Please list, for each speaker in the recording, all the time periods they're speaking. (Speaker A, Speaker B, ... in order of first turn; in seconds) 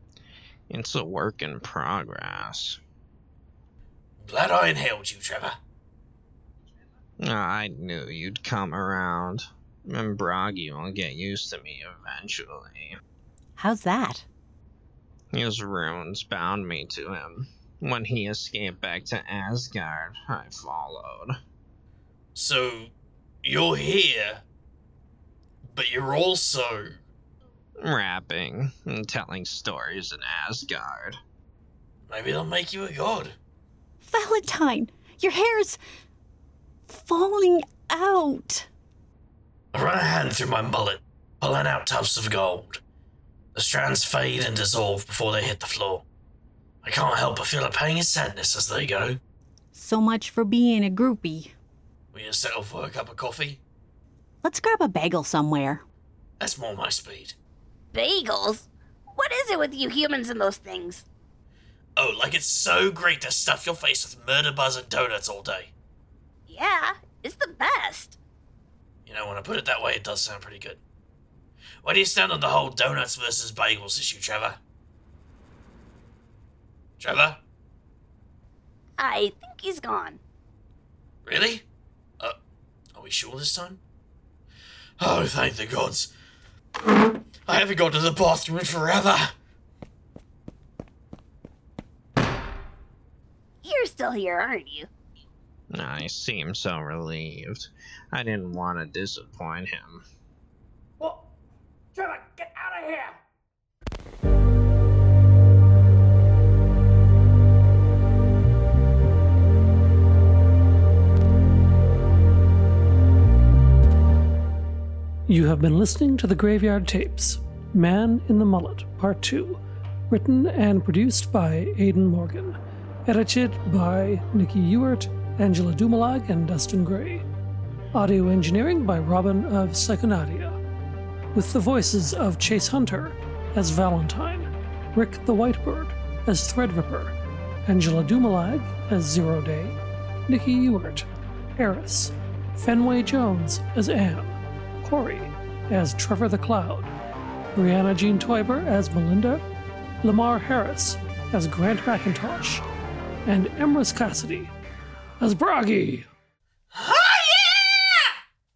Speaker A: 0.7-2.8, 7.2-13.0, 15.3-21.4, 27.8-31.2, 95.7-100.0
Speaker B: 4.2-5.6, 22.4-22.9, 23.4-24.4, 25.6-26.9, 32.1-33.4, 39.7-42.8, 43.5-46.0, 46.8-49.2, 52.1-53.6, 56.4-57.4, 62.0-65.7, 69.1-70.8, 71.8-74.6, 77.0-77.4, 81.3-81.6, 82.9-83.8, 85.0-86.1, 87.5-89.3, 102.0-103.2, 156.7-158.1
Speaker C: 13.6-14.3, 34.0-35.8, 36.9-38.7, 49.7-51.5, 54.4-55.8
Speaker D: 57.9-61.1, 66.5-68.2, 79.0-80.2, 93.6-94.9
Speaker E: 115.3-127.2, 127.9-130.6, 131.3-137.2, 137.7-141.1, 141.6-146.9, 147.5-149.4, 150.0-152.6, 153.3-154.5, 155.2-156.1